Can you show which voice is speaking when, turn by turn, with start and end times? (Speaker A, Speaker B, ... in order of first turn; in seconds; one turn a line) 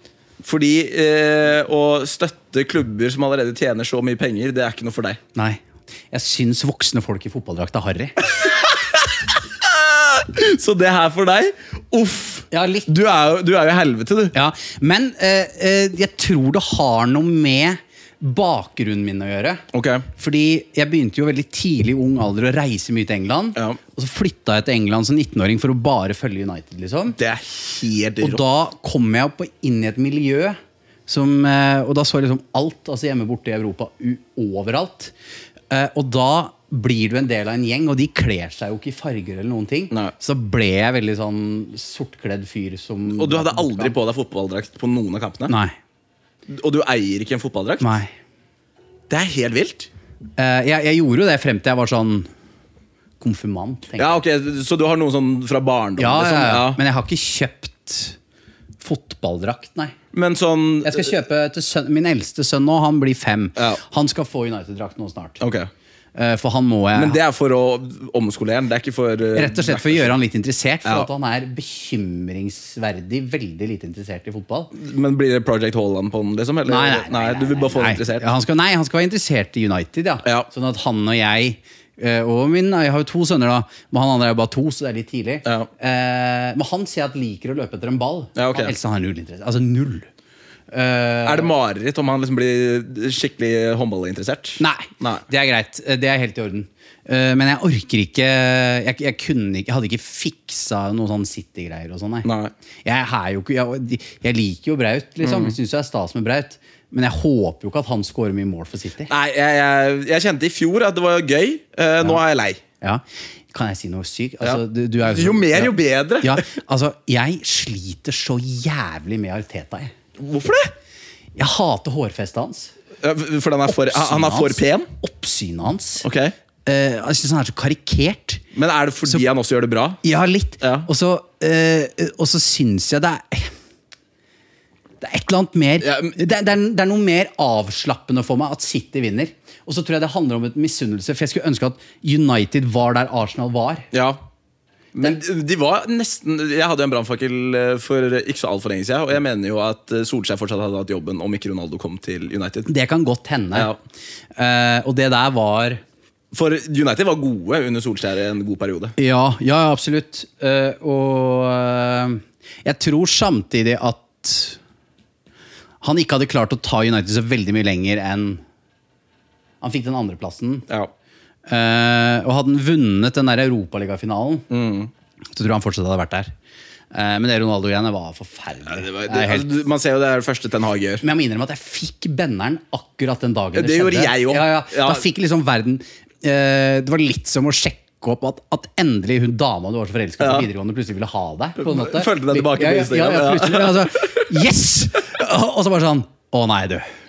Speaker A: 0.4-5.2
Speaker B: 5.3-8.1
Speaker A: 8.3-14.3
Speaker B: 12.5-12.9
Speaker B: 14.3-19.6
Speaker A: 19.7-20.1
Speaker B: 20.1-27.2
Speaker A: 27.2-28.4
Speaker B: 28.2-35.1
Speaker B: 35.7-44.0
Speaker A: 43.1-45.5
Speaker B: 45.5-45.8
Speaker A: 46.5-48.0
Speaker B: 47.8-48.1
Speaker A: 49.1-49.9
Speaker B: 50.4-52.3
Speaker B: 53.2-54.2
Speaker A: 54.0-56.8
Speaker B: 56.0-58.2
Speaker B: 58.8-59.9
Speaker A: 60.1-61.2
Speaker B: 60.8-65.4
Speaker A: 63.5-63.8
Speaker A: 65.4-65.7
Speaker B: 66.1-67.2
Speaker A: 66.9-70.2
Speaker B: 69.3-74.7
Speaker A: 74.7-78.3
Speaker B: 76.7-90.1
Speaker A: 88.3-88.7
Speaker B: 90.7-91.5
Speaker A: 91.2-95.2
Speaker B: 94.6-102.3
Speaker A: 102.2-102.5
Speaker B: 102.8-109.1
Speaker A: 105.2-105.6
Speaker A: 109.1-112.6
Speaker B: 112.8-119.9
Speaker A: 114.4-116.5
Speaker A: 120.2-120.7
Speaker B: 121.3-122.7
Speaker A: 123.0-124.9
Speaker B: 123.7-126.0
Speaker A: 126.0-126.3
Speaker B: 126.7-128.4
Speaker A: 128.5-130.0
Speaker B: 130.0-133.5
Speaker A: 130.6-130.9
Speaker B: 135.0-143.9
Speaker A: 135.8-136.2
Speaker A: 143.9-144.2
Speaker A: 144.9-152.7
Speaker B: 152.7-153.7
Speaker A: 153.5-153.8
Speaker B: 154.3-155.8
Speaker A: 156.3-158.9
Speaker B: 159.0-164.6
Speaker B: 165.8-168.4
Speaker B: 169.6-170.7
Speaker B: 171.4-174.4
Speaker A: 174.5-174.9
Speaker B: 175.3-176.3
Speaker B: 176.9-179.6
Speaker A: 178.7-181.0
Speaker B: 181.0-196.8
Speaker A: 183.5-185.0
Speaker A: 190.2-190.5
Speaker A: 191.6-194.3